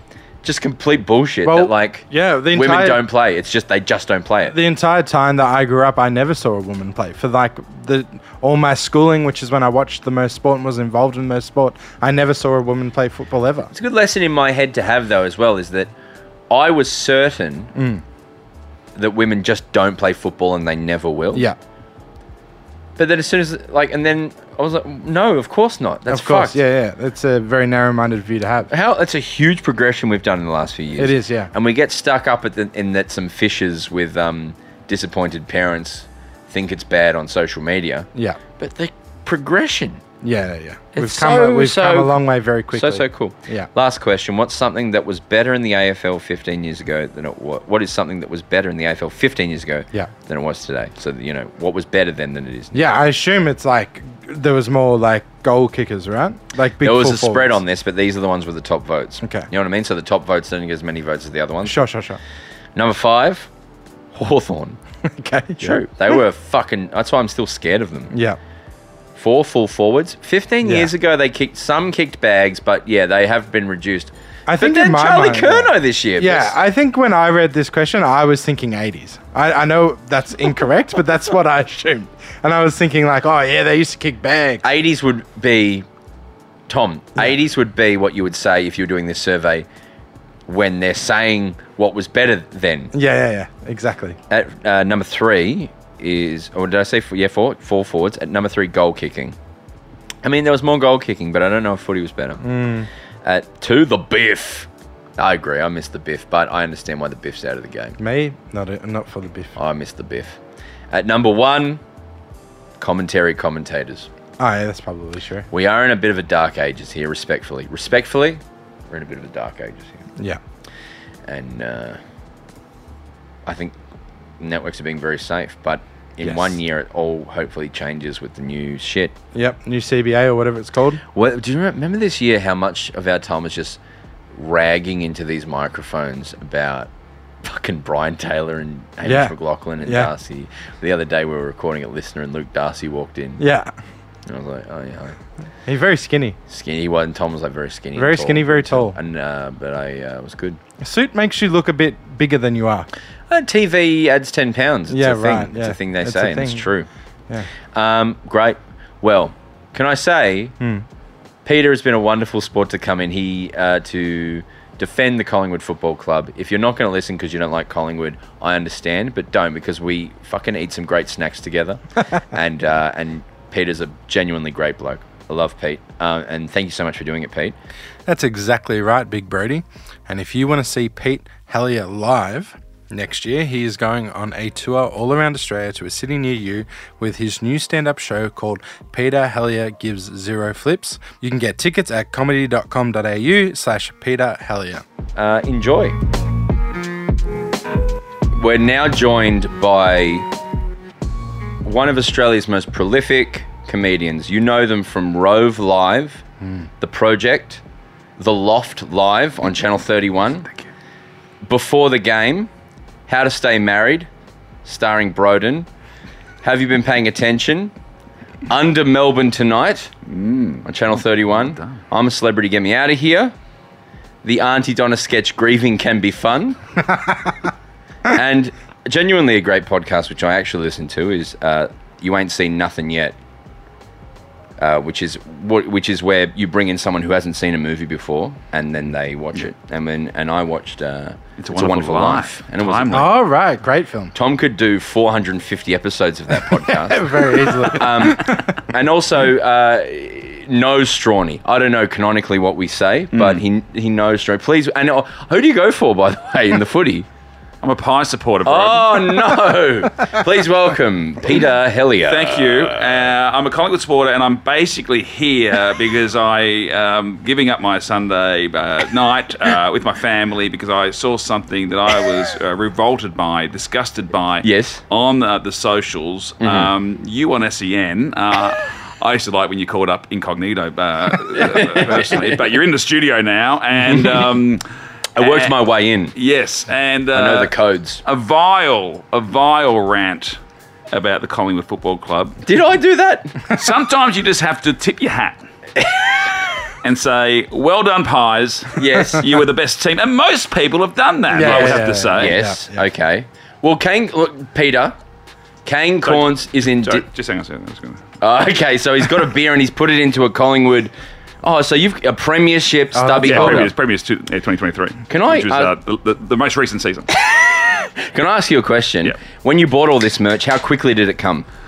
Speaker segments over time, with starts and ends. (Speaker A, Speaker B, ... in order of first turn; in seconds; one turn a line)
Speaker A: 0.4-4.5
Speaker B: 1.4-3.0
Speaker B: 4.5-13.7
Speaker A: 13.7-15.9
Speaker A: 16.5-17.7
Speaker B: 17.7-18.0
Speaker A: 18.9-21.5
Speaker A: 23.0-26.6
Speaker B: 26.1-28.7
Speaker A: 28.7-40.0
Speaker B: 31.0-31.5
Speaker B: 38.1-38.4
Speaker B: 40.2-43.7
Speaker A: 40.9-42.1
Speaker A: 42.7-52.9
Speaker B: 52.7-57.6
Speaker A: 56.8-61.8
Speaker B: 59.2-59.5
Speaker B: 61.6-62.2
Speaker A: 62.8-63.5
Speaker A: 64.1-64.8
Speaker B: 65.0-66.2
Speaker A: 65.6-68.1
Speaker B: 68.1-68.4
Speaker A: 69.2-76.5
Speaker B: 70.6-70.9
Speaker B: 74.5-84.6
Speaker A: 84.6-85.8
Speaker A: 86.7-89.7
Speaker A: 90.5-92.9
Speaker B: 92.9-94.2
Speaker A: 94.3-99.4
Speaker A: 100.2-102.5
Speaker B: 102.4-102.9
Speaker A: 103.2-108.0
Speaker B: 108.0-109.5
Speaker A: 109.5-110.4
Speaker A: 110.9-111.8
Speaker A: 112.8-114.1
Speaker B: 114.4-115.5
Speaker A: 115.5-120.0
Speaker A: 121.3-122.0
Speaker A: 123.5-123.8
Speaker A: 124.4-129.1
Speaker B: 126.2-126.5
Speaker B: 129.3-131.0
Speaker A: 131.1-133.8
Speaker A: 134.3-136.9
Speaker A: 137.4-143.4
Speaker B: 139.0-140.1
Speaker B: 143.4-143.7
Speaker A: 144.2-145.2
Speaker B: 145.7-146.4
Speaker A: 146.5-150.6
Speaker B: 147.9-149.0
Speaker B: 150.8-152.9
Speaker A: 153.3-156.9
Speaker B: 154.9-156.7
Speaker A: 157.7-160.5
Speaker B: 160.6-160.8
Speaker A: 161.4-177.5
Speaker B: 178.1-194.8
Speaker A: 195.2-196.0
Speaker A: 198.3-200.3
Speaker A: 201.6-206.2
Speaker A: 206.8-207.6
Speaker A: 208.2-210.5
Speaker A: 211.4-212.5
Speaker A: 213.1-214.1
Speaker A: 214.6-215.7
Speaker A: 216.4-217.7
Speaker A: 218.5-219.9
Speaker C: 220.1-221.7
Speaker A: 220.6-223.3
Speaker A: 224.2-226.6
Speaker A: 228.1-233.2
Speaker A: 234.6-243.1
Speaker C: 241.4-243.1
Speaker B: 242.9-244.1
Speaker A: 244.1-257.1
Speaker B: 246.4-248.5
Speaker C: 253.1-253.4
Speaker C: 257.6-259.4
Speaker A: 258.4-263.1
Speaker C: 262.1-284.6
Speaker A: 274.4-274.8
Speaker A: 276.4-276.7
Speaker A: 281.4-282.4
Speaker A: 283.9-284.2
Speaker A: 285.1-286.1
Speaker C: 285.2-285.6
Speaker C: 286.1-290.4
Speaker A: 287.1-288.0
Speaker C: 290.9-292.4
Speaker A: 292.4-293.4
Speaker C: 293.4-295.4
Speaker C: 296.8-302.4
Speaker A: 298.7-299.3
Speaker B: 301.3-302.8
Speaker A: 301.4-304.9
Speaker A: 305.6-307.0
Speaker C: 306.1-308.0
Speaker A: 308.2-310.9
Speaker A: 311.4-313.7
Speaker B: 312.9-313.7
Speaker C: 313.2-317.1
Speaker A: 315.1-315.7
Speaker A: 317.1-321.4